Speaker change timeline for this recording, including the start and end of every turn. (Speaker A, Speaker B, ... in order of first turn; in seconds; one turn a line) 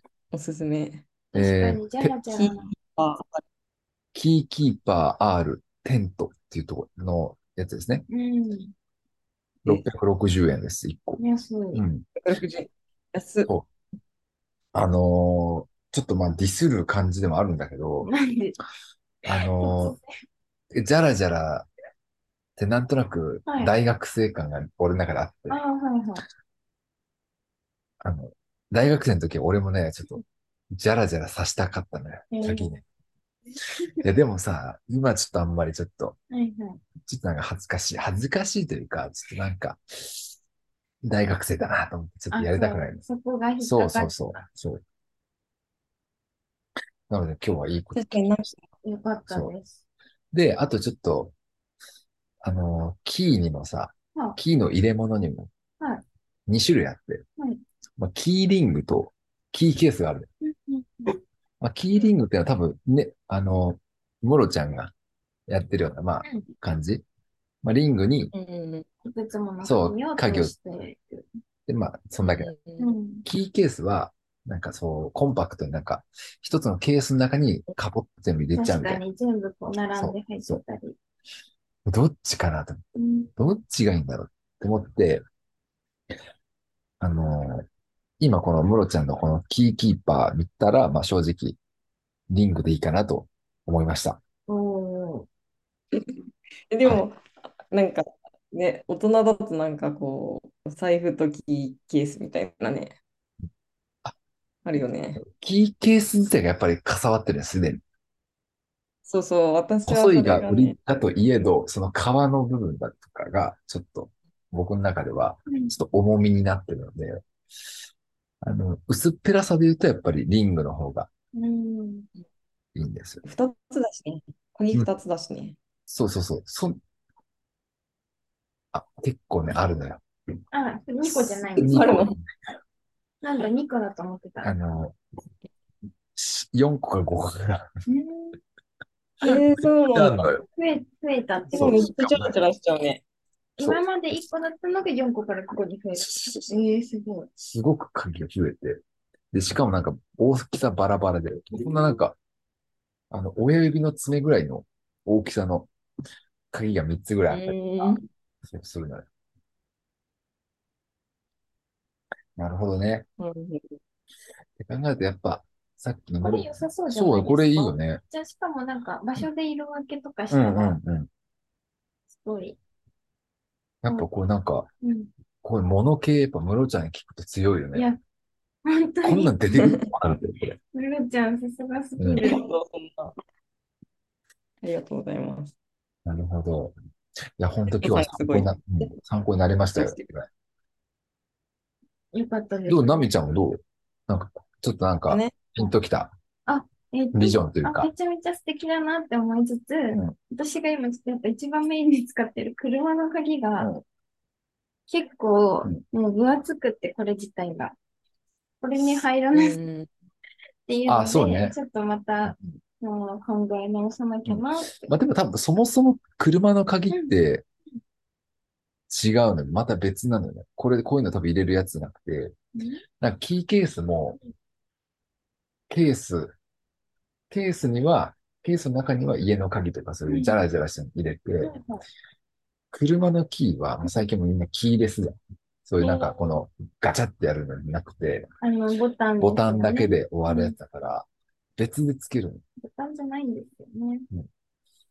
Speaker A: 0.3-1.1
Speaker B: 1.3-2.1
Speaker C: 1.3-2.6
Speaker A: 2.3-3.4
Speaker B: 4.1-8.1
Speaker C: 8.1-8.7
Speaker B: 9.6-11.2
Speaker C: 11.2-11.8
Speaker B: 11.7-12.0
Speaker A: 12.2-13.5
Speaker B: 14.7-18.1
Speaker C: 18.0-18.6
Speaker B: 19.2-20.0
Speaker C: 19.3-20.1
Speaker B: 20.7-21.7
Speaker B: 22.6-25.6
Speaker C: 23.5-23.7
Speaker C: 25.5-26.2
Speaker B: 28.0-32.8
Speaker C: 32.3-32.7
Speaker B: 34.0-36.2
Speaker C: 36.3-36.8
Speaker B: 37.0-40.3
Speaker B: 41.0-43.0
Speaker C: 42.3-44.4
Speaker B: 43.6-44.8
Speaker B: 47.1-48.2
Speaker A: 47.9-48.6
Speaker C: 48.8-49.8
Speaker B: 49.3-49.5
Speaker B: 50.3-51.3
Speaker B: 52.4-55.5
Speaker B: 56.5-57.2
Speaker B: 58.0-60.3
Speaker C: 60.4-61.2
Speaker B: 61.6-64.9
Speaker B: 65.5-67.0
Speaker B: 67.6-68.3
Speaker A: 68.3-68.8
Speaker C: 69.0-71.3
Speaker B: 69.6-70.5
Speaker B: 71.7-72.5
Speaker A: 72.2-72.9
Speaker C: 72.8-73.2
Speaker B: 73.2-79.0
Speaker C: 78.5-81.0
Speaker B: 80.0-80.6
Speaker B: 81.8-82.8
Speaker C: 82.9-83.3
Speaker B: 83.3-85.2
Speaker B: 87.0-87.7
Speaker B: 88.2-91.6
Speaker B: 92.3-94.2
Speaker C: 94.5-95.3
Speaker A: 96.7-103.0
Speaker A: 104.6-105.2
Speaker B: 105.2-107.8
Speaker A: 109.0-110.8
Speaker B: 109.9-117.2
Speaker C: 115.5-115.7
Speaker B: 118.4-121.1
Speaker C: 121.3-122.1
Speaker B: 122.7-123.2
Speaker A: 123.2-125.6
Speaker B: 125.9-126.8
Speaker B: 128.7-130.0
Speaker C: 130.5-132.0
Speaker A: 131.6-132.2
Speaker B: 131.6-132.2
Speaker C: 133.2-134.5
Speaker B: 134.4-135.0
Speaker B: 136.1-137.7
Speaker C: 137.9-138.3
Speaker A: 139.2-140.3
Speaker B: 139.9-140.4
Speaker C: 140.5-141.9
Speaker A: 141.5-143.0
Speaker B: 141.5-142.3
Speaker C: 143.6-147.3
Speaker B: 146.0-146.4
Speaker B: 147.4-148.8
Speaker B: 149.3-152.2
Speaker B: 153.1-155.7
Speaker B: 156.5-159.1
Speaker A: 157.3-158.0
Speaker B: 162.3-163.1
Speaker A: 163.2-163.8
Speaker B: 164.6-168.0
Speaker C: 166.2-170.8
Speaker B: 170.3-171.1
Speaker C: 172.1-172.6
Speaker B: 173.8-174.7
Speaker C: 174.8-175.1
Speaker B: 175.4-177.9
Speaker C: 177.7-178.0
Speaker C: 178.6-179.3
Speaker B: 179.0-180.6
Speaker A: 179.5-179.9
Speaker C: 180.7-182.4
Speaker A: 182.2-183.1
Speaker A: 184.6-185.5
Speaker B: 186.1-186.7
Speaker B: 187.4-190.3
Speaker A: 187.7-188.9
Speaker A: 189.8-190.0
Speaker C: 192.1-193.1
Speaker B: 192.7-196.1
Speaker A: 195.1-195.5
Speaker C: 196.5-203.7
Speaker B: 197.1-197.9
Speaker C: 204.9-207.8
Speaker C: 208.6-209.6
Speaker A: 209.3-209.9
Speaker C: 210.7-214.9
Speaker B: 210.9-211.6
Speaker B: 212.3-212.6
Speaker B: 214.2-217.4
Speaker B: 218.9-222.3
Speaker C: 222.5-222.8
Speaker B: 223.0-224.2
Speaker B: 225.7-226.3
Speaker B: 227.3-231.5
Speaker C: 230.1-230.4
Speaker C: 231.4-231.8
Speaker B: 232.7-235.1
Speaker B: 235.7-238.3
Speaker C: 235.8-236.2
Speaker C: 238.4-240.6
Speaker B: 239.2-242.4
Speaker C: 242.6-244.1